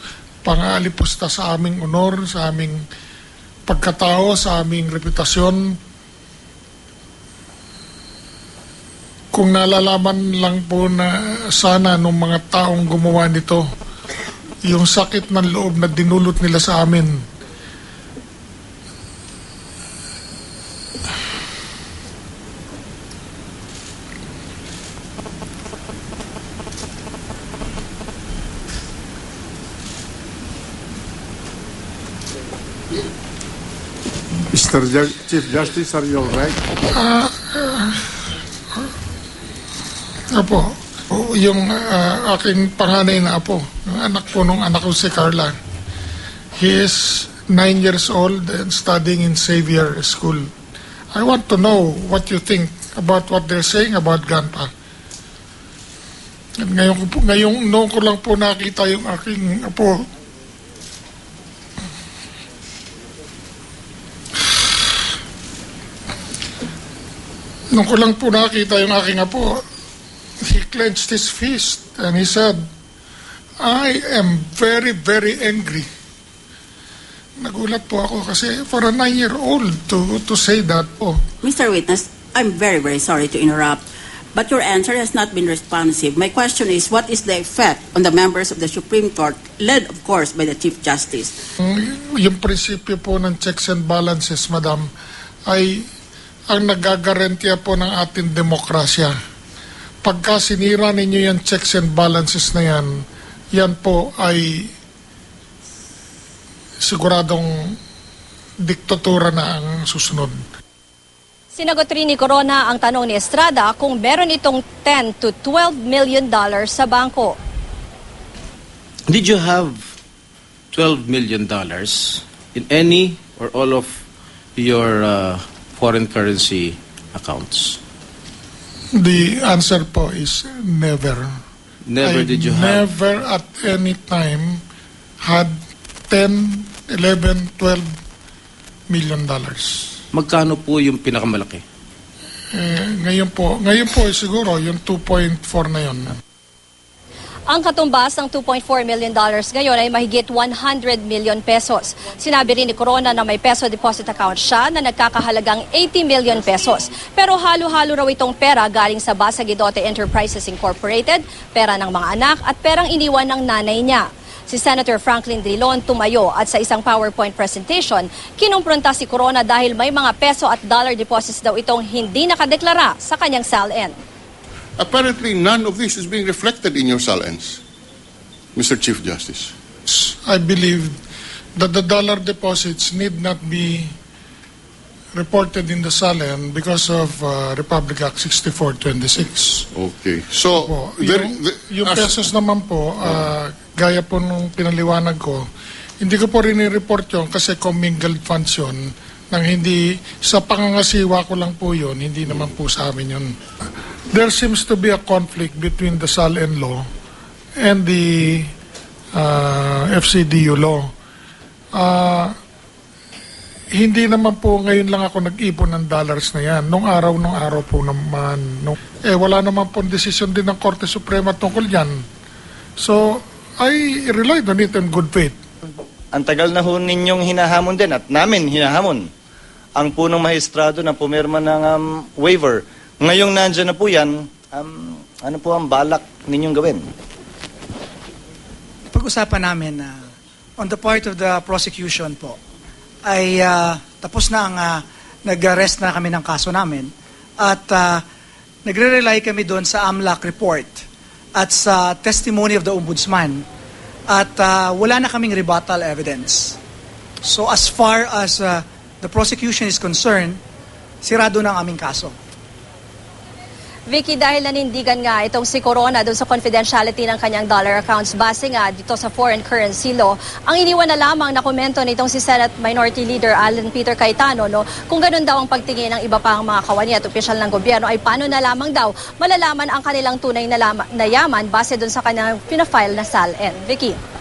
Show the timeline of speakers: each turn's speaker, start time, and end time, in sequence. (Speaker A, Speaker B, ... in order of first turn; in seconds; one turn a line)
Speaker A: 0.4-2.8
Speaker A: 3.7-5.6
Speaker A: 9.3-13.6
Speaker A: 14.6-17.1
Speaker B: 34.5-36.6
Speaker A: 36.9-38.0
Speaker A: 40.3-45.5
Speaker A: 46.6-50.5
Speaker A: 51.1-54.7
Speaker A: 56.6-60.0
Speaker A: 67.7-69.6
Speaker A: 70.4-72.6
Speaker A: 73.6-75.8
Speaker A: 77.4-81.2
Speaker C: 81.4-83.8
Speaker C: 84.3-91.3
Speaker A: 91.6-94.9
Speaker A: 95.5-95.8
Speaker A: 96.5-99.1
Speaker A: 100.0-103.0
Speaker A: 103.5-104.7
Speaker A: 106.8-107.8
Speaker A: 108.6-110.4
Speaker D: 111.5-117.3
Speaker E: 119.1-119.8
Speaker E: 120.7-124.0
Speaker E: 124.5-127.8
Speaker A: 128.9-131.3
Speaker E: 131.8-132.9
Speaker A: 132.0-134.6
Speaker A: 135.2-135.5
Speaker A: 136.1-137.9
Speaker A: 138.9-139.9
Speaker E: 140.1-141.6
Speaker A: 142.5-146.1
Speaker D: 147.5-173.9
Speaker F: 174.8-177.6
Speaker F: 178.5-179.5
Speaker A: 179.9-180.9
Speaker A: 181.6-183.9
Speaker A: 185.1-189.7
Speaker F: 189.8-192.2
Speaker A: 190.6-195.4
Speaker A: 196.0-203.3
Speaker A: 204.1-206.8
Speaker A: 207.6-208.5
Speaker A: 209.1-210.9
Speaker A: 211.7-212.3
Speaker A: 213.7-222.0
Speaker A: 222.8-225.3
Speaker G: 226.1-229.1
Speaker G: 229.8-236.9
Speaker H: 238.9-240.0
Speaker H: 240.6-242.4
Speaker H: 243.0-248.0
Speaker H: 248.6-250.8
Speaker H: 251.3-253.4
Speaker H: 254.1-256.6
Speaker H: 257.2-260.4
Speaker H: 261.0-262.1
Speaker D: 263.9-284.0